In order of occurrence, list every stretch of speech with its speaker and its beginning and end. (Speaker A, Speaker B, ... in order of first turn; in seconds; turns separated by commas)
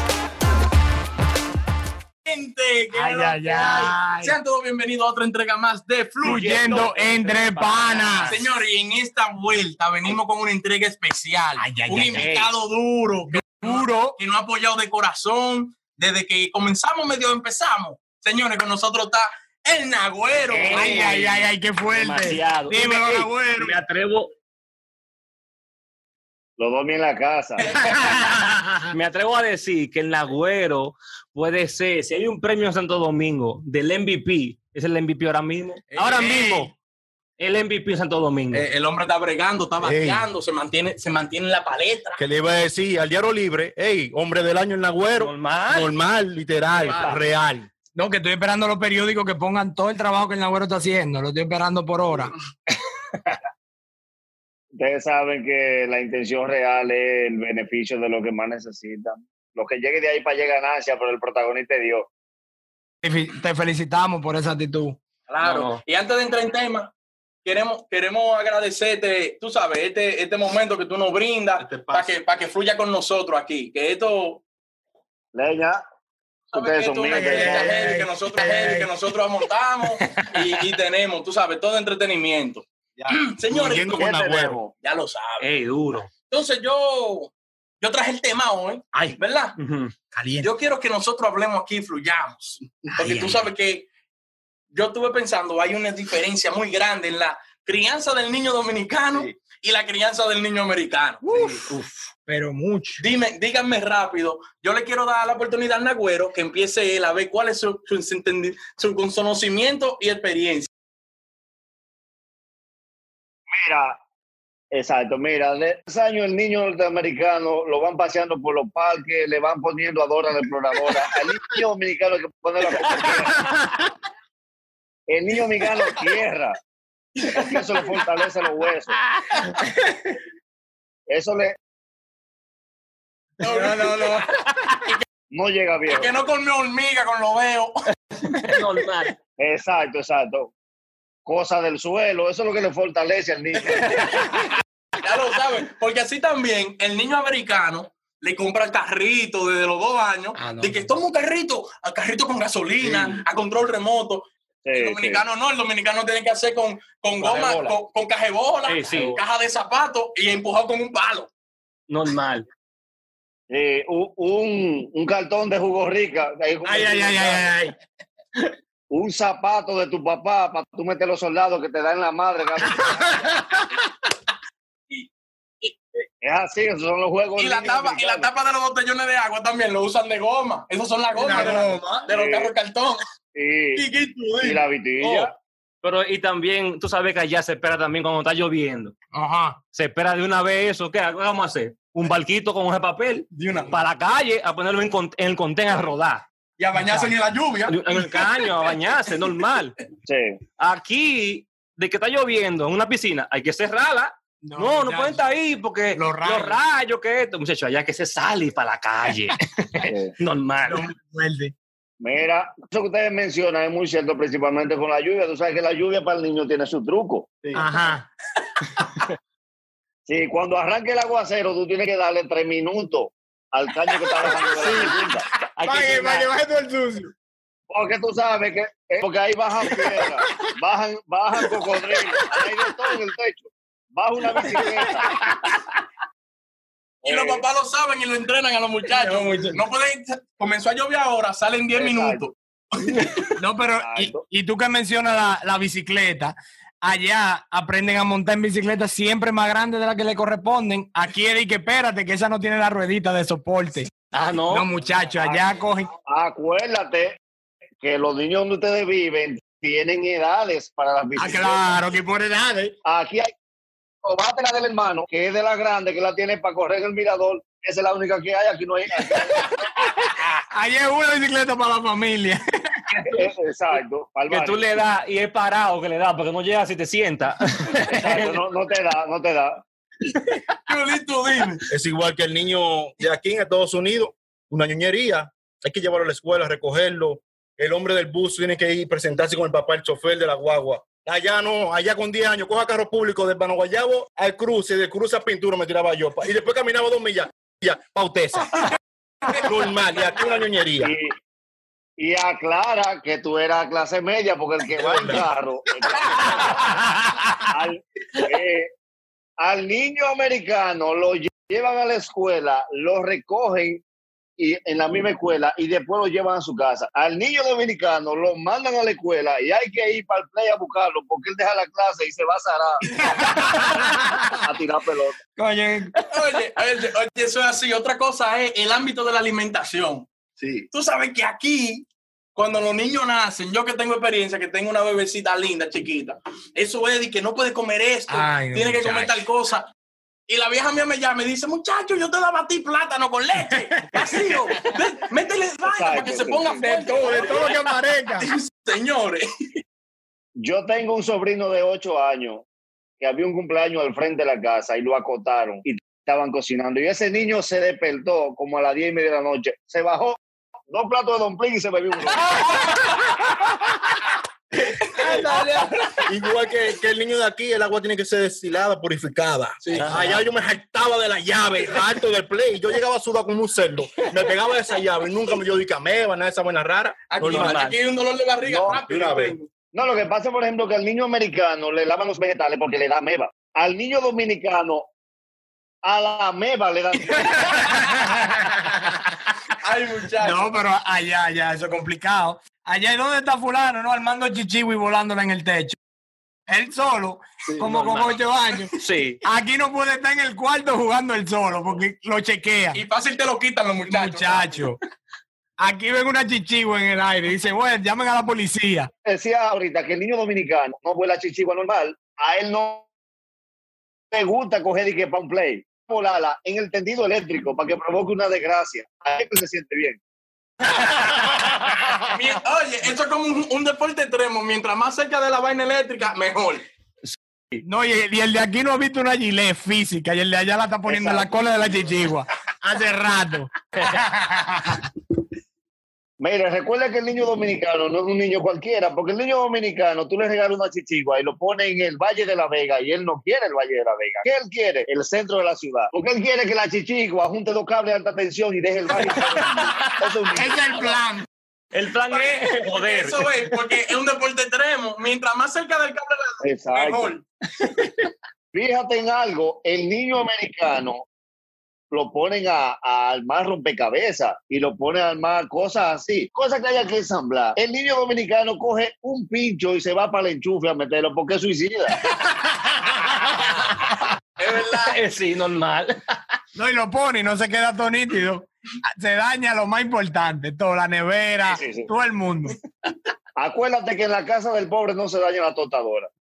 Speaker A: 2.2-6.9, Speaker B: 2.9-4.3, Speaker B: 6.2-8.4, Speaker C: 6.3-8.3, Speaker A: 8.2-21.1, Speaker B: 11.6-12.3, Speaker C: 12.1-12.5, Speaker B: 13.3-14.2, Speaker C: 20.5-24.3, Speaker B: 20.7-23.8, Speaker D: 26.6-27.7, Speaker A: 27.6-28.1, Speaker B: 27.8-28.5, Speaker C: 28.9-36.7, Speaker A: 35.9-36.7, Speaker C: 37.4-38.7, Speaker A: 38.5-42.2, Speaker E: 39.8-40.3, Speaker E: 42.2-47.7, Speaker C: 45.2-45.9, Speaker A: 46.7-47.2, Speaker B: 48.0-52.3, Speaker D: 54.8-62.1, Speaker B: 63.0-65.0, Speaker A: 65.3-66.9, Speaker C: 65.4-65.8, Speaker A: 67.5-74.4, Speaker E: 71.6-72.2, Speaker D: 75.3-75.8, Speaker A: 76.5-84.0, Speaker D: 76.5-77.9, Speaker B: 77.1-78.9, Speaker C: 80.0-80.5, Speaker E: 83.1-84.6, Speaker D: 83.9-84.7, Speaker A: 84.8-85.5, Speaker C: 85.4-86.1, Speaker A: 86.2-89.6, Speaker C: 89.0-90.0, Speaker B: 90.1-90.5, Speaker A: 90.4-93.9, Speaker C: 93.0-93.4, Speaker A: 94.7-101.6, Speaker B: 101.2-101.6, Speaker C: 101.7-102.1, Speaker B: 102.2-103.0, Speaker A: 103.0-110.7, Speaker D: 113.5-114.0, Speaker D: 114.7-123.5, Speaker B: 122.9-123.8, Speaker D: 125.1-126.6, Speaker A: 127.2-127.8, Speaker D: 127.4-129.0, Speaker D: 131.1-131.6, Speaker A: 133.4-134.2, Speaker B: 133.4-134.7, Speaker D: 135.3-136.1, Speaker A: 135.9-137.7, Speaker C: 138.4-139.2, Speaker D: 139.4-140.5, Speaker D: 141.3-143.9, Speaker A: 145.0-161.3, Speaker B: 150.4-150.9, Speaker D: 154.7-155.2, Speaker C: 157.2-157.8, Speaker C: 158.7-159.2, Speaker C: 161.9-162.5, Speaker D: 163.5-167.5, Speaker B: 166.7-167.7, Speaker D: 168.9-173.2, Speaker B: 172.6-173.8, Speaker D: 176.2-178.3, Speaker A: 177.4-183.0, Speaker B: 181.1-182.1, Speaker D: 182.1-182.5, Speaker D: 183.3-183.9, Speaker A: 183.8-184.7, Speaker D: 184.4-185.3, Speaker C: 185.0-188.9, Speaker A: 189.1-189.6, Speaker C: 189.7-196.3, Speaker A: 193.3-193.8, Speaker A: 196.6-199.4, Speaker B: 196.8-197.1, Speaker C: 197.7-199.8, Speaker D: 200.1-200.4, Speaker C: 200.6-210.8, Speaker B: 204.4-205.3, Speaker B: 205.9-206.6, Speaker D: 209.9-210.1, Speaker B: 210.6-211.5, Speaker D: 212.0-217.4, Speaker B: 217.6-218.1, Speaker D: 220.1-225.2, Speaker B: 224.2-224.9, Speaker C: 225.6-226.3, Speaker B: 225.6-227.1, Speaker D: 227.7-235.1, Speaker B: 229.7-230.5, Speaker B: 231.4-232.4, Speaker B: 234.6-235.2, Speaker C: 235.1-235.6, Speaker A: 237.0-243.3, Speaker D: 237.1-237.4, Speaker B: 238.9-239.6, Speaker D: 241.8-242.2, Speaker B: 243.4-253.9, Speaker D: 243.8-244.2, Speaker C: 254.1-254.7, Speaker B: 254.5-255.9, Speaker D: 255.2-255.5, Speaker D: 256.1-257.2, Speaker D: 257.8-261.8, Speaker B: 261.2-262.8, Speaker D: 262.9-263.3, Speaker D: 264.0-269.5, Speaker B: 269.3-269.9, Speaker B: 270.5-272.9, Speaker C: 272.9-273.2, Speaker D: 273.1-274.7, Speaker C: 274.3-278.4, Speaker D: 277.9-279.6, Speaker A: 280.7-281.6, Speaker E: 281.7-298.7, Speaker E: 299.3-300.9, Speaker D: 300.8-301.1, Speaker D: 302.0-306.6, Speaker E: 304.8-305.3, Speaker D: 307.5-308.7, Speaker D: 309.4-313.8, Speaker D: 314.4-322.9, Speaker B: 322.9-324.4, Speaker D: 324.3-325.2, Speaker B: 325.4-326.1, Speaker A: 326.1-330.1, Speaker D: 330.4-330.7, Speaker A: 330.7-339.7, Speaker B: 338.1-339.2, Speaker A: 340.3-349.2, Speaker B: 343.5-344.0, Speaker D: 345.7-346.7, Speaker B: 346.6-348.3, Speaker D: 350.4-352.4, Speaker D: 353.0-360.2, Speaker D: 360.7-362.2, Speaker B: 362.5-362.8, Speaker B: 364.8-366.0, Speaker E: 366.1-377.6, Speaker C: 369.7-370.2, Speaker A: 377.1-379.5, Speaker C: 377.2-377.8, Speaker D: 378.4-378.8, Speaker E: 378.9-379.4, Speaker D: 379.7-384.9, Speaker D: 385.9-387.7, Speaker B: 387.1-388.7, Speaker A: 389.6-390.5, Speaker B: 390.2-395.8, Speaker B: 396.5-402.8, Speaker C: 397.6-398.1, Speaker C: 398.8-399.2, Speaker A: 402.7-404.7, Speaker B: 403.9-404.8, Speaker B: 405.6-408.9, Speaker D: 409.1-412.9, Speaker D: 414.1-420.0, Speaker A: 420.7-426.7, Speaker B: 427.6-434.8, Speaker D: 430.9-431.5, Speaker D: 436.2-451.0, Speaker C: 449.6-449.9, Speaker B: 450.4-451.2, Speaker A: 450.8-451.1, Speaker C: 451.7-453.6, Speaker A: 452.1-457.3, Speaker D: 456.4-457.1, Speaker D: 458.5-461.1, Speaker D: 461.9-472.0, Speaker A: 474.4-475.0, Speaker C: 474.8-476.1, Speaker B: 476.6-482.6, Speaker D: 481.5-481.9, Speaker D: 483.4-486.1